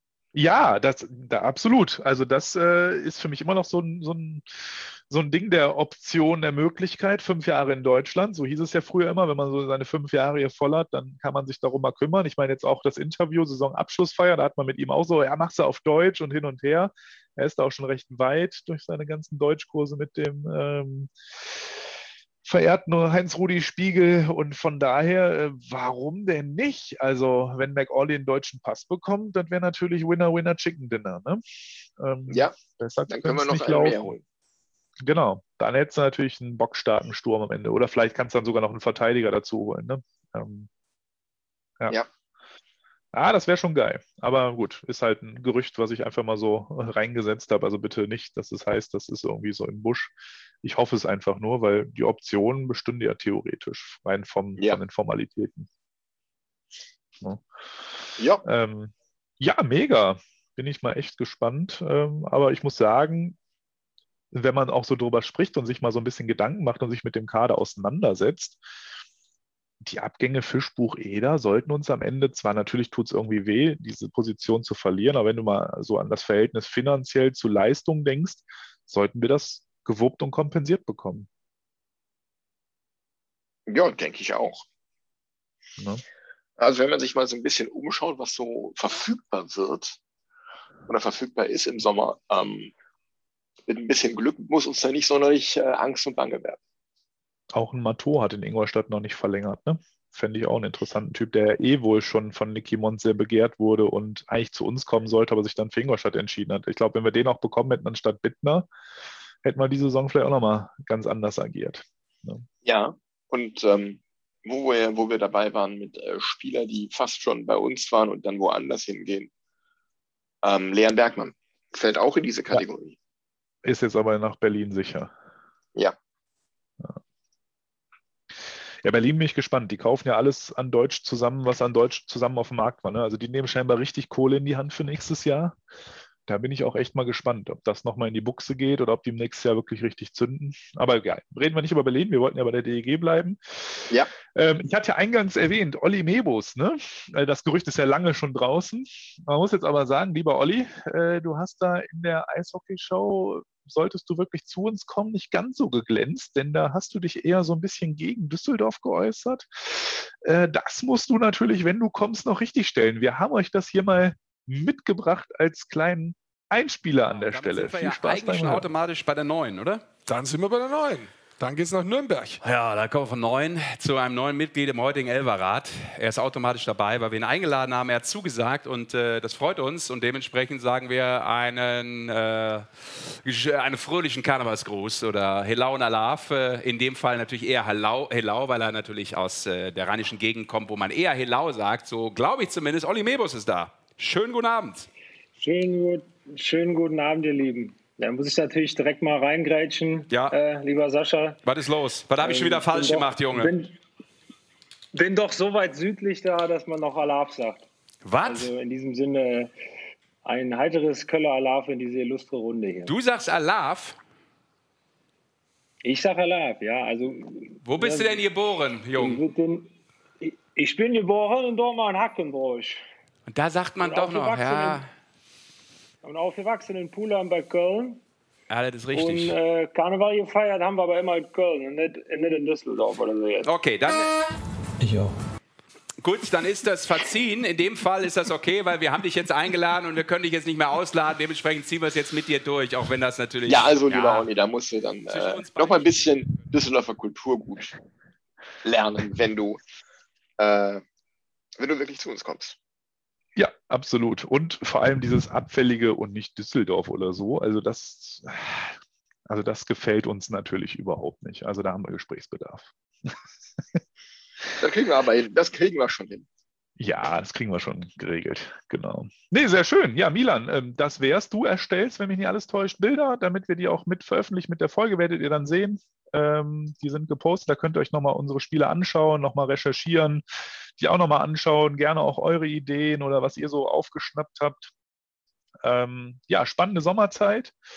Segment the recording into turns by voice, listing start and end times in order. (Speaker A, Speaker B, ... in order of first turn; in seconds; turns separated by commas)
Speaker A: 0.3-21.7, Speaker A: 22.4-31.4, Speaker A: 32.0-34.2, Speaker B: 32.3-32.5, Speaker B: 33.1-34.2, Speaker A: 35.0-40.7, Speaker A: 43.1-55.7, Speaker B: 58.2-58.4, Speaker A: 58.4-63.4, Speaker A: 64.3-68.6, Speaker A: 69.8-81.3, Speaker B: 83.7-84.6, Speaker B: 86.6-90.0, Speaker B: 90.9-92.7, Speaker B: 93.7-96.6, Speaker A: 97.5-108.7, Speaker A: 109.4-112.4, Speaker B: 112.6-119.3, Speaker B: 120.4-123.0, Speaker A: 123.6-125.1, Speaker A: 128.8-135.6, Speaker A: 136.3-168.7, Speaker C: 167.1-169.9, Speaker D: 170.1-172.4, Speaker C: 172.4-194.9, Speaker E: 195.4-201.4, Speaker C: 201.4-203.5, Speaker E: 202.2-203.8, Speaker E: 204.9-207.7, Speaker C: 208.0-208.5, Speaker E: 208.2-209.5, Speaker E: 210.2-212.9, Speaker C: 212.8-213.9, Speaker E: 215.8-218.2, Speaker C: 217.6-219.2, Speaker E: 218.9-222.8, Speaker C: 223.3-224.8, Speaker E: 223.8-224.8, Speaker E: 226.0-228.0, Speaker C: 228.5-229.3, Speaker E: 228.9-233.5, Speaker C: 233.4-234.1, Speaker C: 236.0-244.3, Speaker B: 243.4-247.8, Speaker C: 245.1-246.4, Speaker B: 248.6-249.6, Speaker B: 250.4-250.8, Speaker B: 251.6-252.6, Speaker A: 253.3-258.7, Speaker A: 259.3-263.2, Speaker B: 264.6-266.2, Speaker A: 266.8-280.2, Speaker A: 280.8-284.7, Speaker A: 285.6-287.5